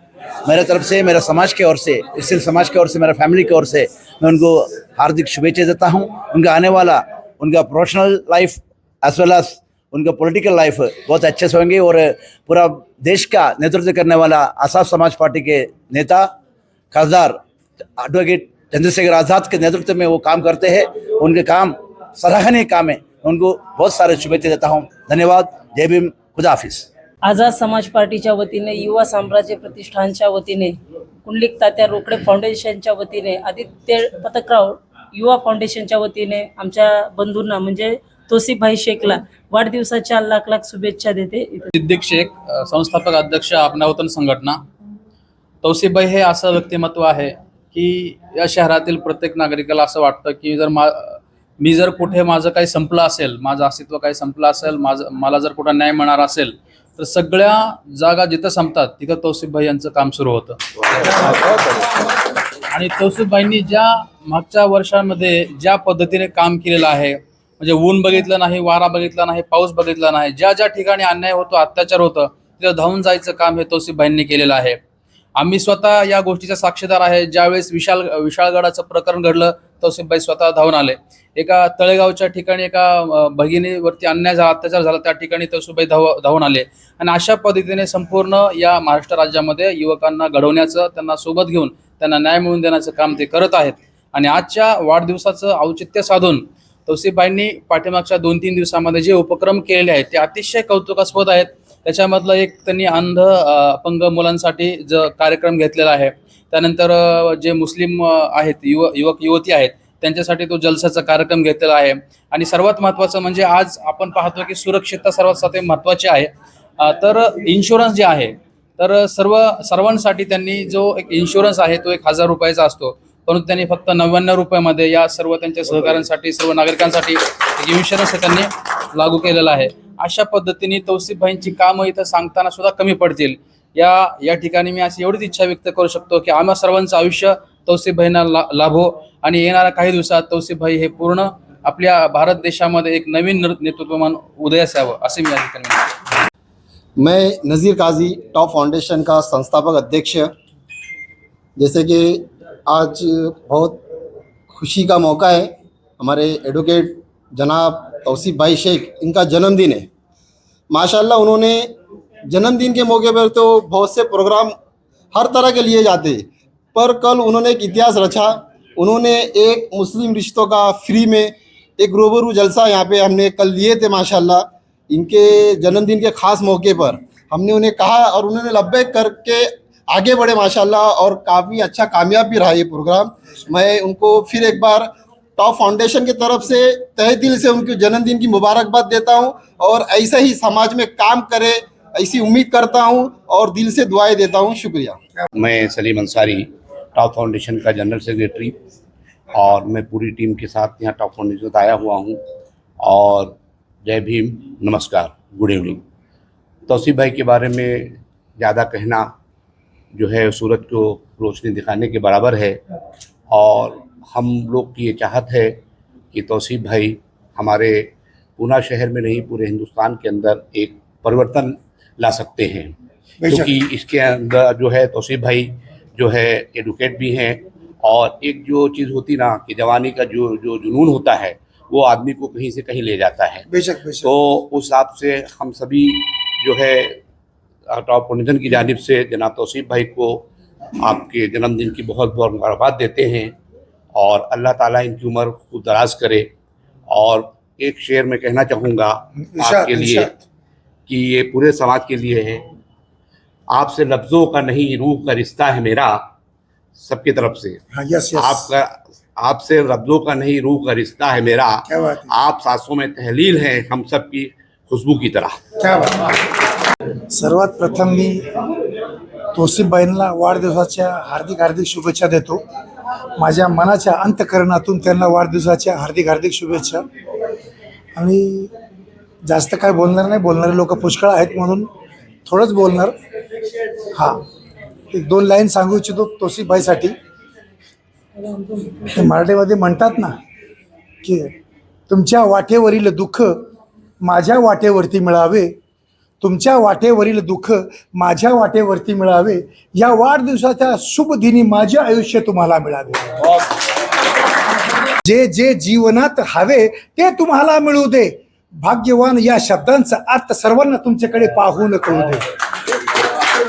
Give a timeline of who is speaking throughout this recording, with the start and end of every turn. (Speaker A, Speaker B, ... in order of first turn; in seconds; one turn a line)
Speaker A: 0.5-16.3
Speaker A: 16.9-17.4
Speaker A: 18.0-26.9
Speaker B: 27.2-41.7
Speaker C: 41.7-44.6
Speaker C: 45.6-61.4
Speaker C: 62.7-74.8
Speaker C: 75.3-145.9
Speaker D: 147.0-150.3
Speaker D: 151.6-153.8
Speaker D: 154.5-159.9
Speaker D: 160.7-161.7
Speaker D: 162.3-164.6
Speaker D: 165.1-195.0
Speaker E: 195.3-198.6
Speaker E: 199.3-202.2
Speaker E: 202.8-203.3
Speaker E: 203.8-205.8
Speaker E: 206.7-209.1
Speaker E: 209.9-212.6
Speaker E: 213.3-215.6
Speaker E: 216.1-222.7
Speaker F: 223.2-223.5
Speaker E: 223.3-233.4
Speaker F: 233.5-234.1
Speaker E: 234.0-237.0
Speaker E: 237.7-240.3
Speaker E: 240.8-243.3
Speaker E: 243.9-246.3
Speaker E: 246.9-250.2
Speaker F: 249.2-250.1
Speaker E: 250.9-252.5
Speaker E: 253.5-256.1
Speaker E: 256.8-257.6
Speaker F: 257.7-258.5
Speaker E: 258.1-265.4
Speaker F: 261.7-262.1
Speaker F: 265.6-266.0
Speaker F: 267.1-268.2
Speaker F: 269.3-272.4
Speaker F: 273.2-276.8
Speaker F: 277.9-278.5
Speaker F: 279.2-281.7
Speaker F: 282.2-282.9
Speaker F: 283.9-284.2
Speaker F: 284.9-286.9
Speaker F: 288.8-290.1
Speaker F: 291.0-291.3
Speaker F: 291.9-293.4
Speaker F: 294.0-295.5
Speaker F: 296.2-303.1
Speaker F: 305.0-312.2